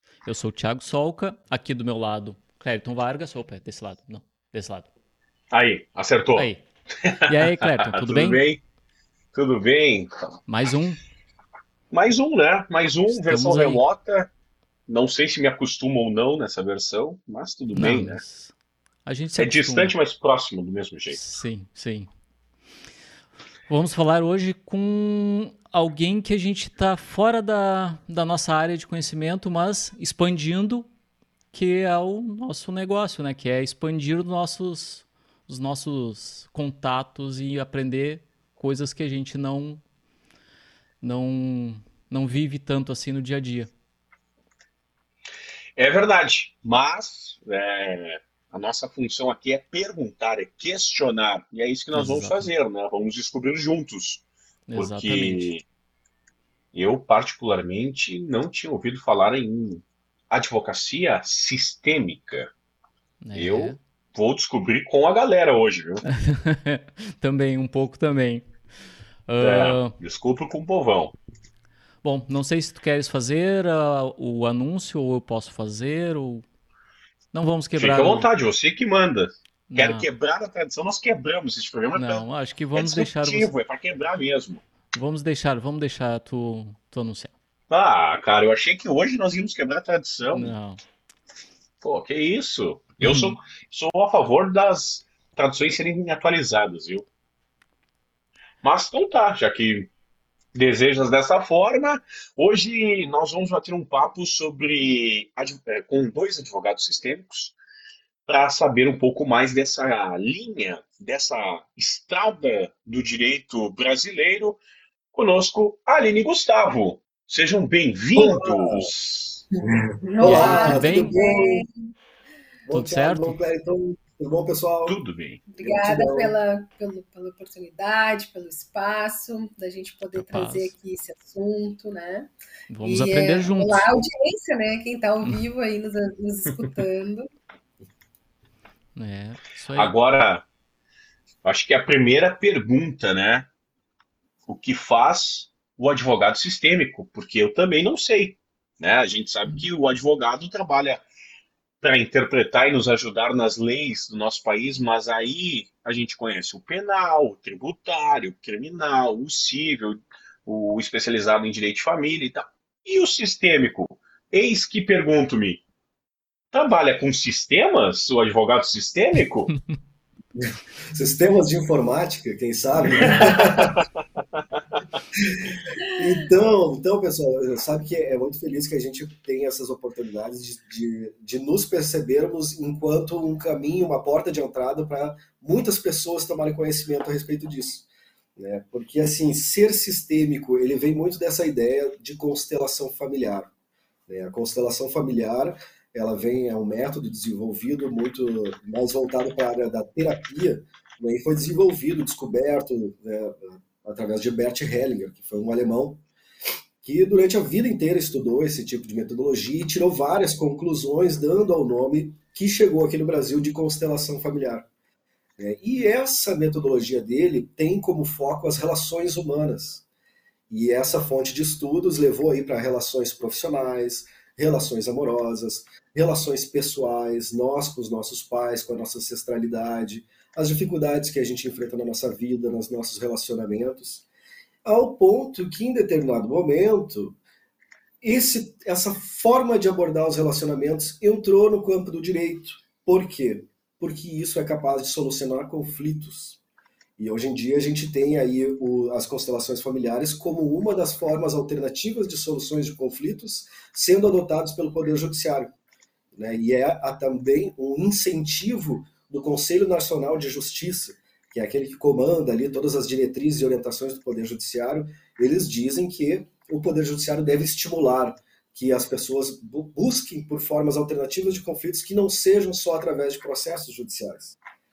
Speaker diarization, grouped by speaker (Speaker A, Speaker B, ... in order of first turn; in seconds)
Speaker A: 0.2-4.9, 6.3-6.7, 7.3-8.4, 10.5-11.0, 13.1-13.8, 17.7-18.5, 19.1-19.9, 21.1-22.1, 23.7-30.9, 31.5-39.8, 41.0-43.7, 51.9-52.5, 54.7-55.5, 63.2-63.8, 66.1-68.5, 69.3-70.0, 72.0-76.5, 77.3-78.3, 79.7-80.1, 82.0-83.5, 84.9-87.3, 90.3-90.8, 93.0-93.4, 120.2-121.2, 122.7-123.4, 130.1-130.7, 132.7-133.9, 139.0-139.9
Speaker B: 5.5-6.5, 7.0-8.6, 9.3-10.4, 11.9-14.3, 14.9-18.2, 19.4-21.2, 45.8-54.3, 54.8-55.6, 56.7-62.5, 63.3-66.1, 69.4-71.2, 77.8-84.6, 87.7-90.5, 91.8-97.1, 98.6-99.9, 100.5-107.6, 108.3-114.6, 115.1-119.5, 124.9-125.4, 139.8-140.5, 141.4-143.5, 144.5-151.0, 151.8-165.6, 166.5-169.5, 173.0-173.8, 174.4-174.8
Speaker C: 118.2-118.9, 119.9-121.7, 122.7-125.0, 125.6-126.3, 170.4-173.7, 175.2-187.9, 188.4-193.5, 194.1-206.0, 206.8-214.7, 215.4-219.8, 220.5-234.1, 234.6-237.2, 238.0-246.4, 247.0-255.5, 256.1-274.4
Speaker D: 119.5-121.7, 125.5-132.3, 132.8-137.3